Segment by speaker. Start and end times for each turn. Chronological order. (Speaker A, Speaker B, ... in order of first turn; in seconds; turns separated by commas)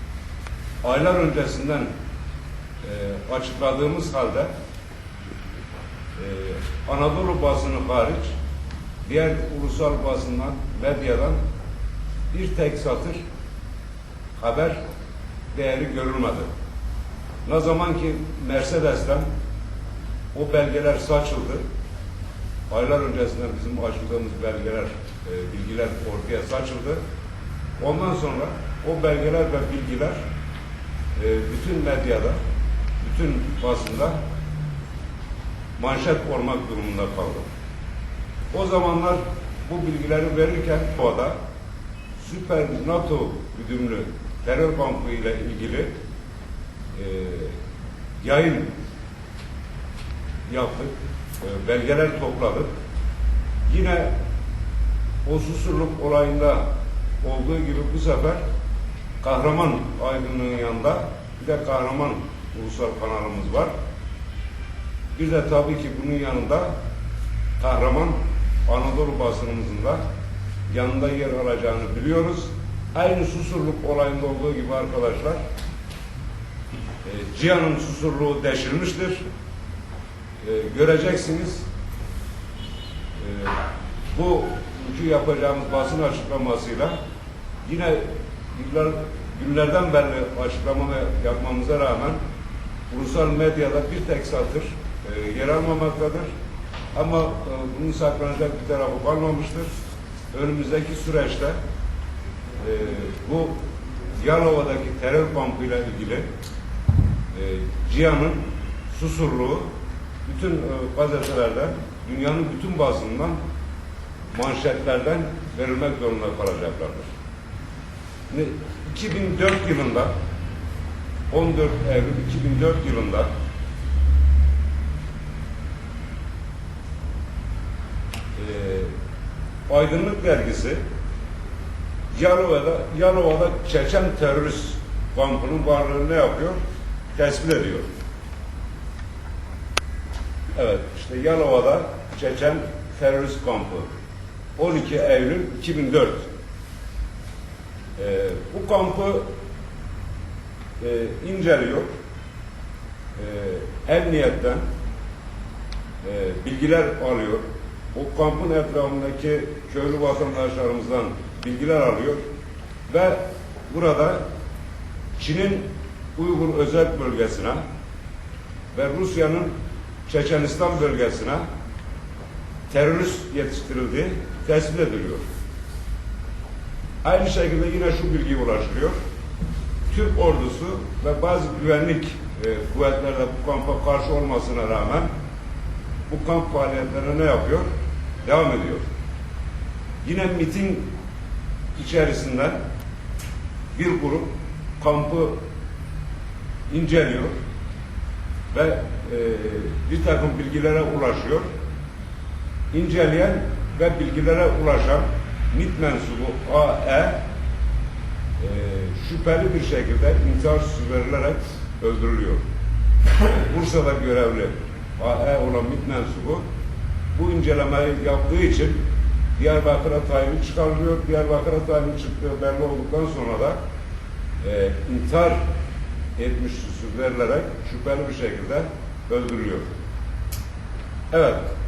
Speaker A: 0.8-1.9, Speaker A: 2.8-4.5, Speaker A: 6.2-8.3, Speaker A: 9.0-11.4, Speaker A: 12.3-13.2, Speaker A: 14.4-14.8, Speaker A: 15.5-16.5, Speaker A: 17.4-19.3, Speaker A: 20.3-21.6, Speaker A: 22.7-27.0, Speaker A: 27.8-30.2, Speaker A: 31.2-32.4, Speaker A: 33.0-34.2, Speaker A: 35.8-37.5, Speaker A: 38.5-41.4, Speaker A: 42.2-45.9, Speaker A: 46.9-47.6, Speaker A: 48.2-48.7, Speaker A: 50.5-52.7, Speaker A: 53.7-54.1, Speaker A: 55.2-56.7, Speaker A: 57.2-58.4, Speaker A: 59.2-63.7, Speaker A: 65.1-66.7, Speaker A: 67.6-70.0, Speaker A: 70.7-75.4, Speaker A: 77.0-79.2, Speaker A: 80.4-81.7, Speaker A: 83.2-83.6, Speaker A: 84.1-87.0, Speaker A: 87.6-92.2, Speaker A: 92.9-96.3, Speaker A: 96.9-99.7, Speaker A: 100.3-101.6, Speaker A: 102.6-103.6, Speaker A: 104.2-106.3, Speaker A: 107.3-109.7, Speaker A: 110.2-113.4, Speaker A: 114.3-117.1, Speaker A: 118.3-120.1, Speaker A: 121.3-123.3, Speaker A: 128.4-128.9, Speaker A: 129.7-130.8, Speaker A: 132.1-136.6, Speaker A: 137.2-137.9, Speaker A: 140.6-143.9, Speaker A: 144.6-146.3, Speaker A: 148.0-149.3, Speaker A: 150.8-151.9, Speaker A: 153.2-154.7, Speaker A: 156.0-162.2, Speaker A: 162.9-164.2, Speaker A: 165.2-167.6, Speaker A: 168.7-169.5, Speaker A: 170.1-171.4, Speaker A: 172.7-175.2, Speaker A: 177.0-179.0, Speaker A: 179.9-185.1, Speaker A: 186.1-187.7, Speaker A: 188.2-188.8, Speaker A: 190.0-190.9, Speaker A: 191.8-192.6, Speaker A: 193.7-195.4, Speaker A: 196.7-197.4, Speaker A: 198.5-201.5, Speaker A: 202.7-207.3, Speaker A: 208.4-212.4, Speaker A: 213.3-216.4, Speaker A: 217.2-218.8, Speaker A: 219.4-223.6, Speaker A: 224.4-225.4, Speaker A: 226.2-229.7, Speaker A: 231.1-231.5